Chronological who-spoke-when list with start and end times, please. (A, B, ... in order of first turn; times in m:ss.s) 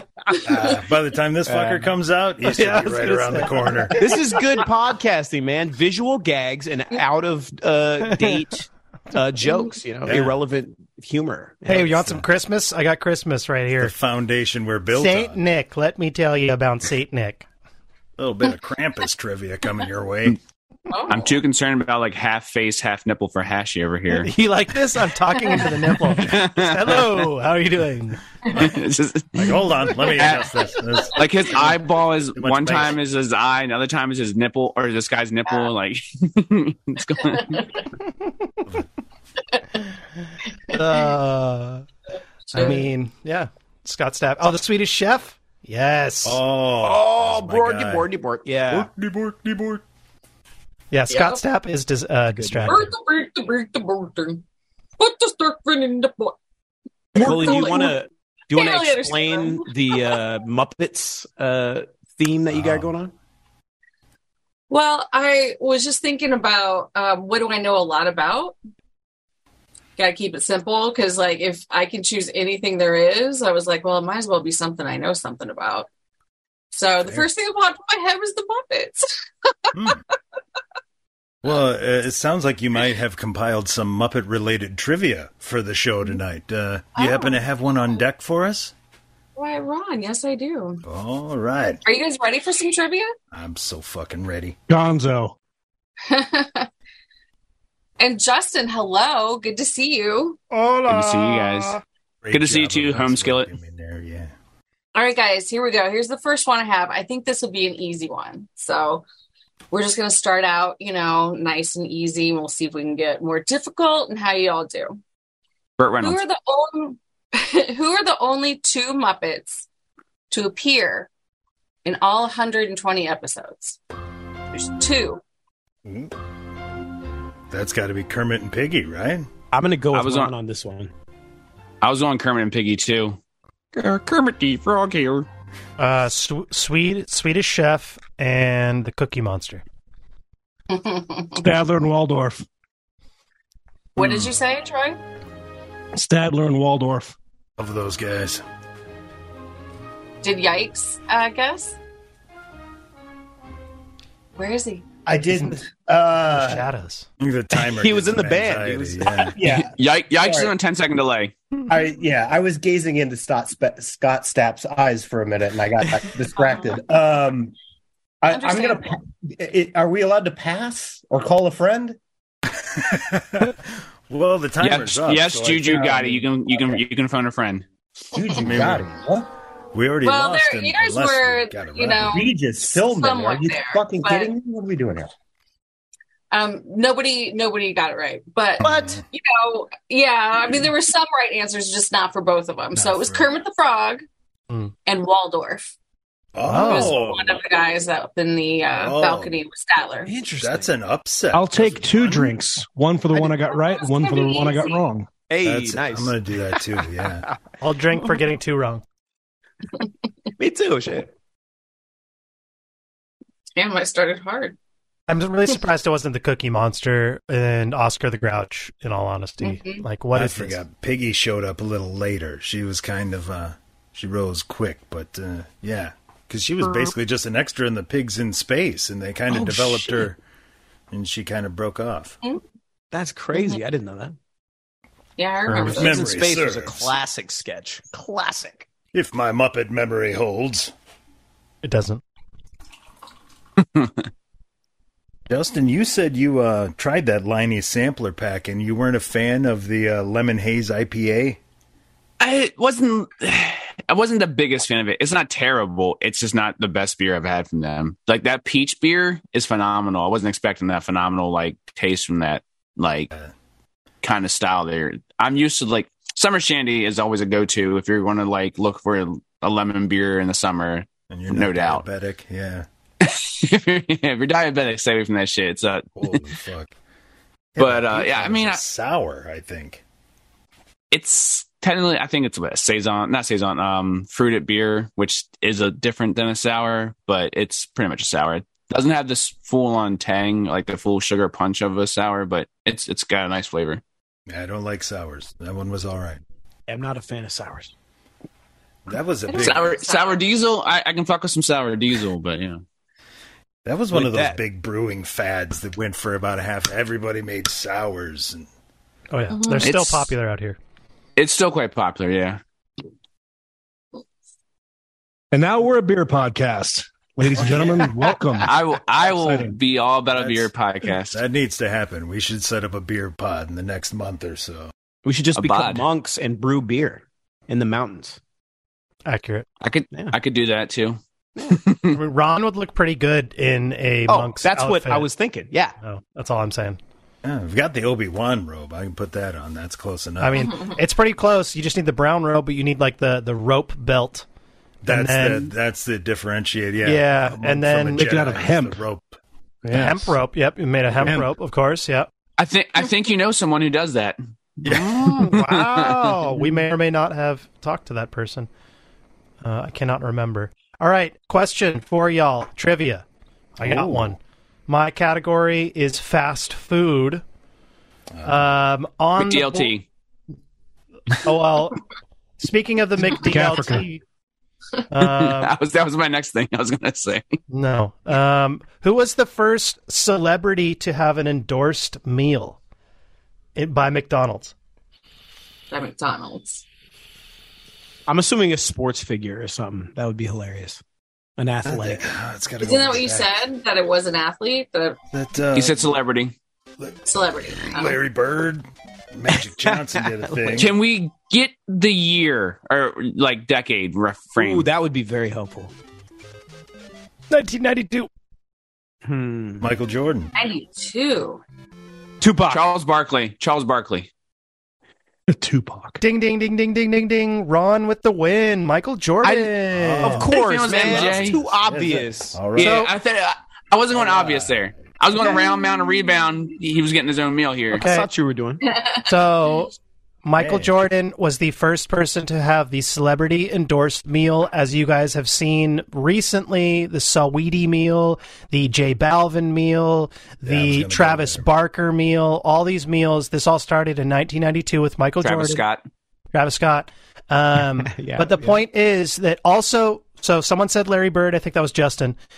0:00.4-0:04.0 A
0:01.5-0:01.9 B
0:02.5-0:04.1 C
0:04.0-0:12.1 B
0:10.0-0:10.3 A
0:11.7-0:13.9 C
0:13.8-0:15.4 A
0:14.9-0:17.4 C
0:18.2-0:20.4 A
0:20.9-0:21.4 D
0:21.1-0:24.3 E
0:24.1-0:28.2 C
0:26.1-0:27.1 E
0:28.5-0:30.6 E
0:29.3-0:31.8 A
0:31.1-0:37.7 E
0:32.3-0:33.0 A
0:37.4-0:37.6 D
0:40.7-0:41.8 C
0:42.5-0:42.9 D
0:42.5-0:46.4 C
0:46.2-0:48.1 A
0:46.8-0:48.9 B
0:48.7-0:49.8 A
0:50.9-0:52.9 C
0:51.1-0:51.4 D
0:52.3-0:52.8 B
0:52.7-0:54.4 D
0:55.0-0:56.3 D
0:57.1-0:58.0 D
0:57.2-1:03.1 B
0:58.5-1:00.0 D
1:02.5-1:02.9 A
1:04.7-1:08.6 D
1:10.0-1:15.9 D
1:16.7-1:19.7 D
1:19.7-1:20.0 A
1:21.4-1:28.7 A
1:27.0-1:27.4 D
1:29.4-1:30.8 D
1:30.8-1:31.8 A
1:31.8-1:33.1 D
1:33.3-1:34.6 A
1:34.7-1:35.3 F
1:36.0-1:36.7 D
1:38.0-1:40.4 D
1:40.5-1:41.7 C
1:40.9-1:41.8 E
1:42.2-1:44.3 A
1:42.3-1:43.5 E
1:44.9-1:49.0 D
1:49.7-1:55.0 D
1:55.8-1:56.2 E
1:56.0-1:59.7 D
2:00.3-2:01.1 D
2:01.8-2:03.8 D
2:04.5-2:05.2 D
2:05.8-2:06.1 A
2:07.5-2:09.3 A
2:09.5-2:10.9 B
2:09.9-2:10.3 E
2:11.8-2:13.2 E
2:13.8-2:15.2 E
2:15.8-2:19.6 C
2:20.7-2:21.4 D
2:21.4-2:22.4 F
2:24.0-2:25.0 D
2:25.9-2:27.2 F
2:27.6-2:28.4 A
2:30.2-2:31.8 D
2:34.4-2:34.8 D
2:35.0-2:36.7 G
2:36.3-2:37.1 C
2:37.2-2:39.4 A
2:37.5-2:39.3 B
2:39.4-2:40.5 G
2:39.4-2:41.3 E
2:41.7-2:47.5 G
2:48.2-2:52.0 G
2:48.3-2:49.0 D
2:52.6-2:56.2 A
2:54.6-2:57.6 E
2:58.1-2:59.3 G
2:58.4-2:58.8 A
2:59.7-3:02.3 A
3:00.0-3:04.3 D
3:02.1-3:05.1 G
3:06.3-3:14.0 D
3:08.6-3:09.0 A
3:12.7-3:13.3 A
3:14.8-3:15.7 D
3:16.3-3:17.4 A
3:16.4-3:20.1 D
3:18.7-3:19.3 A
3:20.0-3:20.7 B
3:20.4-3:22.3 A
3:21.3-3:25.1 F
3:23.1-3:24.8 D
3:25.3-3:26.6 B
3:25.4-3:27.3 A
3:27.6-3:28.8 C
3:30.4-3:31.1 B
3:33.6-3:34.6 D
3:35.1-3:40.6 C
3:39.4-3:39.8 D
3:40.1-3:50.2 A
3:50.9-3:52.2 A
3:52.9-3:54.2 B
3:55.2-3:56.1 D
3:55.5-3:56.9 A
3:55.5-3:58.7 B
3:58.9-4:00.7 A
4:01.6-4:02.0 C
4:05.3-4:11.4 A
4:12.2-4:23.1 E
4:24.0-4:31.8 E
4:31.1-4:32.6 A
4:33.0-4:36.2 E
4:35.9-4:36.7 A
4:37.6-4:39.8 A
4:37.6-4:38.6 E
4:40.9-4:53.8 E
4:54.3-4:56.2 A
4:56.7-4:57.7 B
4:58.9-4:59.8 A
4:59.3-5:00.2 D
4:59.3-5:02.6 E
5:03.6-5:08.5 A
5:03.9-5:04.4 B
5:09.1-5:10.6 C
5:09.3-5:09.7 D
5:09.6-5:10.1 E
5:11.2-5:12.4 E
5:15.3-5:18.5 F
5:17.4-5:17.8 A
5:18.4-5:21.2 E
5:19.0-5:19.5 F
5:20.1-5:24.7 A
5:25.0-5:28.2 B
5:25.3-5:25.8 E
5:29.0-5:29.5 C
5:29.6-5:32.0 E
5:31.9-5:35.1 C
5:34.1-5:35.8 B
5:35.8-5:36.8 C
5:37.2-5:40.5 A
5:40.2-5:44.2 C
5:44.8-5:49.2 A
5:44.9-5:45.5 C
5:46.8-5:48.1 C
5:48.0-5:48.8 F
5:49.6-5:50.2 F
5:49.7-5:52.1 C
5:51.0-5:51.3 F
5:52.4-5:56.2 E
5:54.6-5:55.2 A
5:55.0-5:58.5 C
5:59.4-6:03.0 C
6:03.6-6:07.2 C
6:03.6-6:04.1 A
6:08.1-6:08.4 A
6:08.2-6:09.7 C
6:09.2-6:09.8 E
6:11.2-6:11.8 C
6:12.4-6:14.0 C
6:13.2-6:13.8 F
6:14.9-6:15.5 C
6:15.0-6:17.3 E
6:17.5-6:22.6 C
6:23.6-6:24.5 C
6:25.7-6:26.6 D
6:28.1-6:30.8 B
6:31.4-6:32.1 B
6:31.6-6:33.3 A
6:32.6-6:35.0 D
6:35.1-6:35.9 A
6:35.5-6:36.3 E
6:36.8-6:40.8 A
6:37.0-6:38.0 D
6:39.4-6:40.7 B
6:40.5-6:44.7 E
6:44.4-6:45.7 B
6:47.3-6:48.1 C
6:49.0-6:49.7 B
6:49.6-6:50.3 A
6:50.3-6:51.4 D
6:52.2-6:52.6 B
6:52.5-6:54.1 E
6:55.3-6:56.0 F
6:56.0-7:00.3 C
6:59.2-7:02.6 B
6:59.7-7:02.8 A
7:00.3-7:01.4 E
7:02.6-7:07.8 E
7:02.6-7:02.9 C
7:03.9-7:04.8 A
7:05.3-7:06.2 D
7:07.7-7:08.1 C
7:07.7-7:08.6 B
7:08.7-7:09.0 D
7:09.0-7:25.6 C
7:10.4-7:10.8 A
7:20.4-7:21.5 A
7:25.2-7:25.8 E
7:26.3-7:32.2 C
7:27.8-7:28.6 B